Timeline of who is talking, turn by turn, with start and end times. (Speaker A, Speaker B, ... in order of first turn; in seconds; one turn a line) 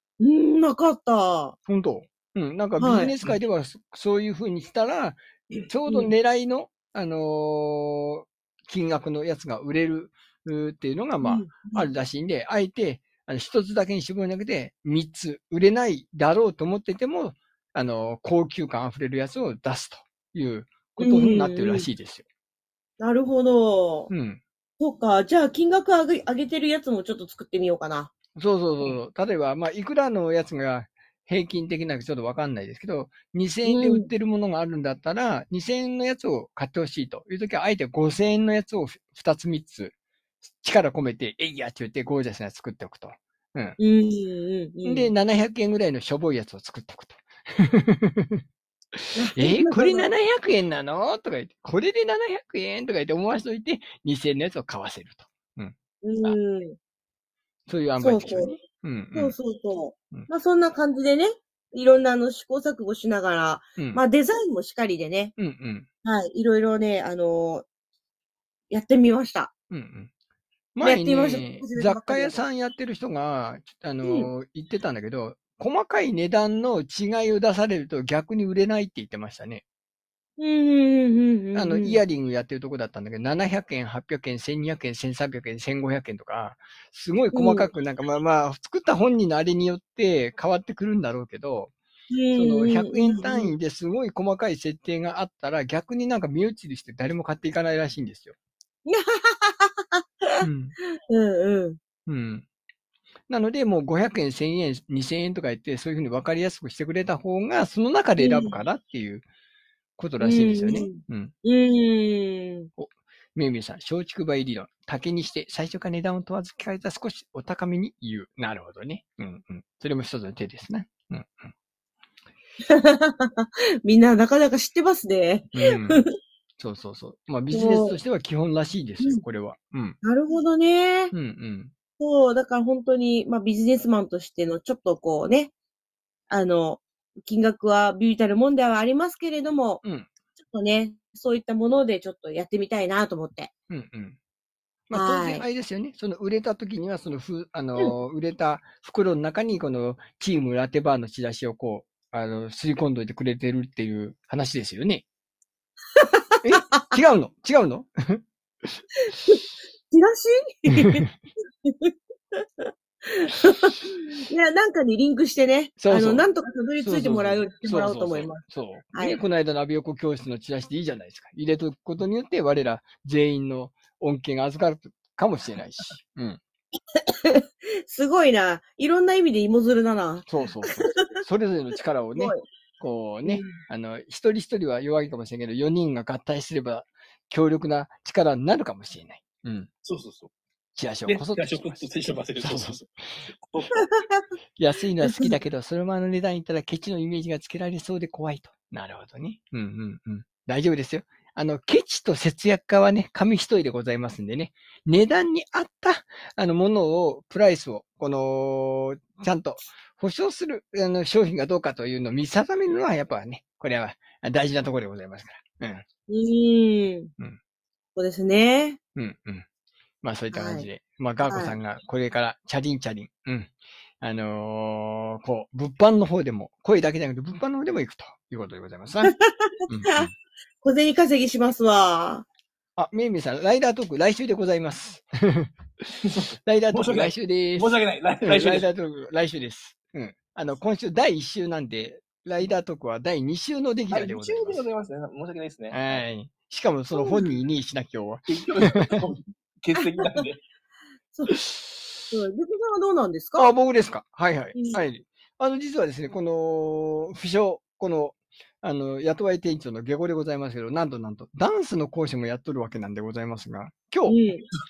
Speaker A: 0.2-1.6
Speaker B: 1.7-22.2
Speaker A: 2.8-3.1
Speaker A: 5.5-6.1
Speaker A: 11.2-11.9
Speaker A: 21.0-21.9
Speaker A: 23.0-24.1
Speaker B: 24.1-24.4
Speaker A: 24.8-28.1
Speaker B: 28.4-40.0
Speaker A: 33.6-34.1
Speaker B: 40.6-43.8
Speaker A: 43.8-45.1
Speaker B: 44.8-48.4
Speaker B: 48.9-56.4
Speaker A: 49.1-50.1
Speaker A: 56.0-56.8
Speaker B: 57.7-59.4
Speaker A: 58.0-58.5
Speaker A: 59.1-65.3
Speaker B: 63.8-64.0
Speaker B: 65.4-65.9
Speaker A: 66.0-67.7
Speaker A: 68.7-69.5
Speaker B: 69.7-70.1
Speaker B: 70.8-79.6
Speaker A: 70.8-72.4
Speaker A: 74.0-74.3
Speaker A: 80.4-82.0
Speaker B: 81.5-91.7
Speaker A: 87.3-87.7
Speaker A: 92.1-93.5
Speaker B: 92.3-98.3
Speaker A: 98.9-100.5
Speaker B: 100.4-100.8
Speaker A: 101.1-101.8
Speaker B: 102.1-102.5
Speaker B: 103.3-109.2
Speaker A: 108.2-108.6
Speaker B: 110.0-111.3
Speaker A: 110.2-112.7
Speaker B: 112.8-121.5
Speaker A: 122.7-126.1
Speaker B: 125.5-126.0
Speaker B: 126.6-130.0
Speaker A: 127.5-128.0
Speaker A: 130.0-131.1
Speaker B: 131.1-131.7
Speaker A: 132.0-135.5
Speaker A: 136.3-139.8
Speaker B: 139.8-140.1
Speaker A: 140.4-143.5
Speaker B: 143.7-144.2
Speaker B: 144.9-155.0
Speaker A: 144.9-145.5
Speaker A: 156.0-156.9
Speaker B: 156.4-158.2
Speaker A: 159.1-161.1
Speaker B: 160.7-161.1
Speaker A: 161.6-169.2
Speaker B: 165.8-166.3
Speaker B: 166.8-176.4
Speaker A: 177.3-181.2
Speaker B: 180.3-189.7
Speaker A: 182.2-182.5
Speaker A: 183.2-183.6
Speaker C: 189.8-190.3
Speaker B: 190.8-192.8
Speaker C: 191.1-193.8
Speaker A: 193.8-194.2
Speaker B: 194.6-215.8
Speaker A: 195.0-195.3
Speaker A: 216.1-217.1
Speaker A: 218.0-218.8
Speaker B: 219.0-219.5
Speaker B: 220.0-229.1
Speaker A: 220.3-220.7
Speaker A: 221.2-221.6
Speaker A: 229.1-230.1
Speaker B: 229.7-230.1
Speaker A: 230.6-232.2
Speaker B: 232.8-244.6
Speaker C: 236.0-238.7
Speaker C: 243.9-246.0
Speaker B: 245.7-249.0
Speaker A: 246.9-247.3
Speaker C: 248.3-250.4
Speaker A: 249.8-250.3
Speaker B: 251.5-251.9
Speaker A: 252.1-253.5
Speaker B: 253.4-264.2
Speaker A: 254.6-254.8
Speaker A: 264.1-264.5